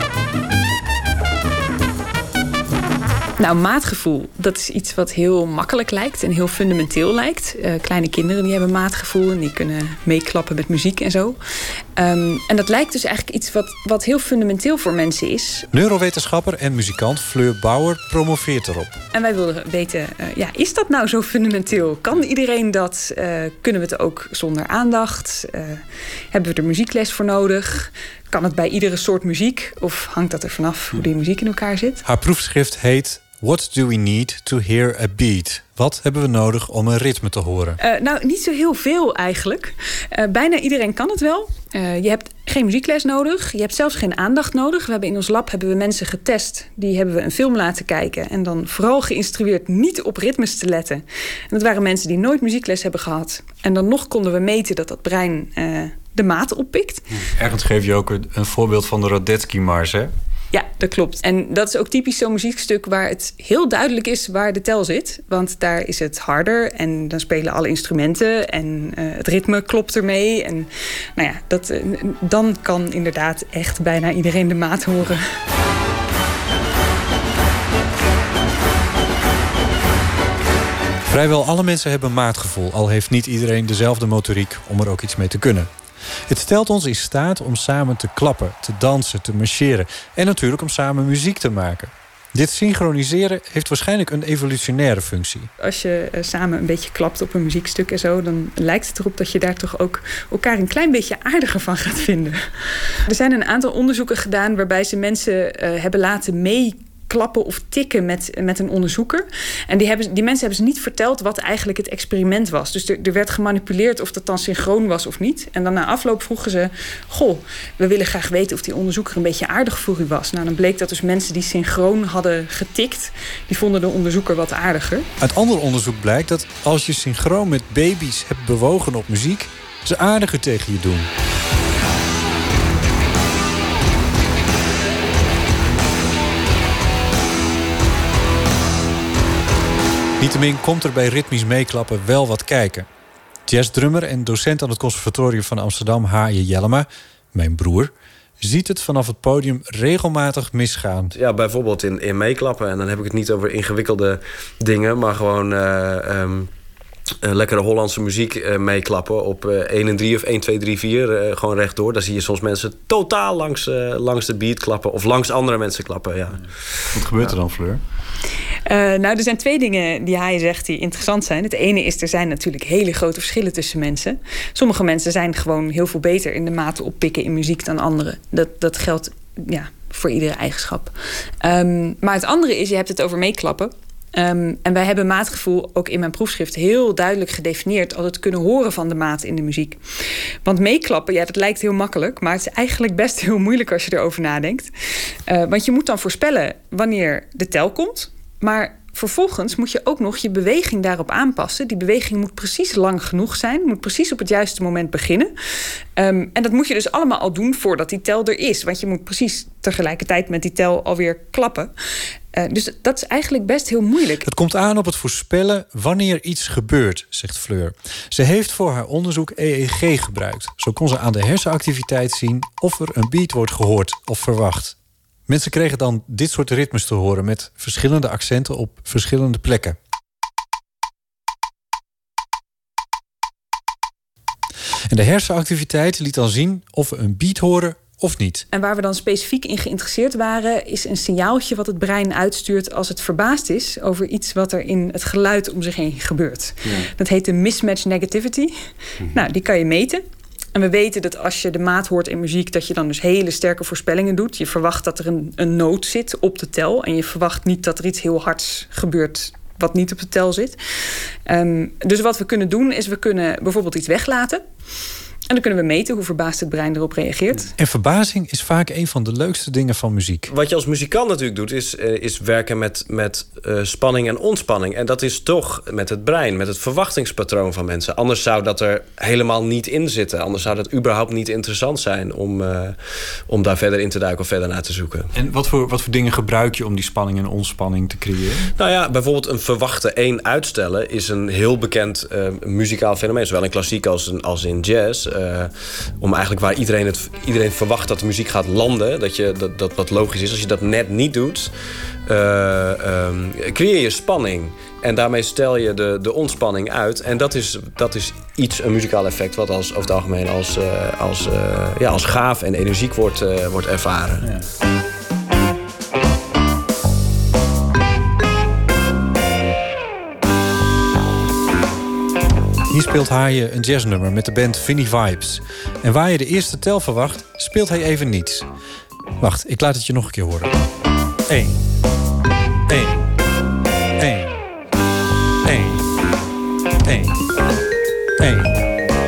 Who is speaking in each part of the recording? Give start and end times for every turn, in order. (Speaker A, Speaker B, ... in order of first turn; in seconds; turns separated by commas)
Speaker A: 3.4-11.4, Speaker A: 12.0-15.7, Speaker B: 15.7-18.9, Speaker A: 19.1-32.0, Speaker B: 32.0-37.8, Speaker A: 37.8-57.0, Speaker B: 57.4-60.1, Speaker A: 60.5-75.2, Speaker B: 81.1-85.7, Speaker B: 86.3-95.5, Speaker A: 95.6-102.5, Speaker A: 103.1-125.1, Speaker B: 125.2-131.1, Speaker B: 140.2-142.9, Speaker B: 143.5-151.1, Speaker C: 151.1-156.5, Speaker C: 157.2-166.5, Speaker B: 166.9-167.8, Speaker A: 168.7-189.8, Speaker A: 190.4-194.7, Speaker A: 195.3-205.3, Speaker A: 206.0-211.7, Speaker A: 212.3-214.3, Speaker B: 214.2-224.8, Speaker B: 225.3-229.8, Speaker B: 234.9-238.5, Speaker A: 238.5-248.5, Speaker A: 249.0-250.0, Speaker A: 250.5-260.6, Speaker A: 261.3-264.4, Speaker A: 265.3-267.5, Speaker B: 267.6-270.3, Speaker C: 270.3-285.1, Speaker B: 285.1-288.5, Speaker C: 288.6-301.5, Speaker C: 302.1-314.3, Speaker B: 322.7-328.5, Speaker B: 329.2-330.6, Speaker B: 331.3-331.6, Speaker B: 332.7-333.0, Speaker B: 334.0-334.4, Speaker B: 335.4-335.8, Speaker B: 336.9-337.2, Speaker B: 338.2-338.5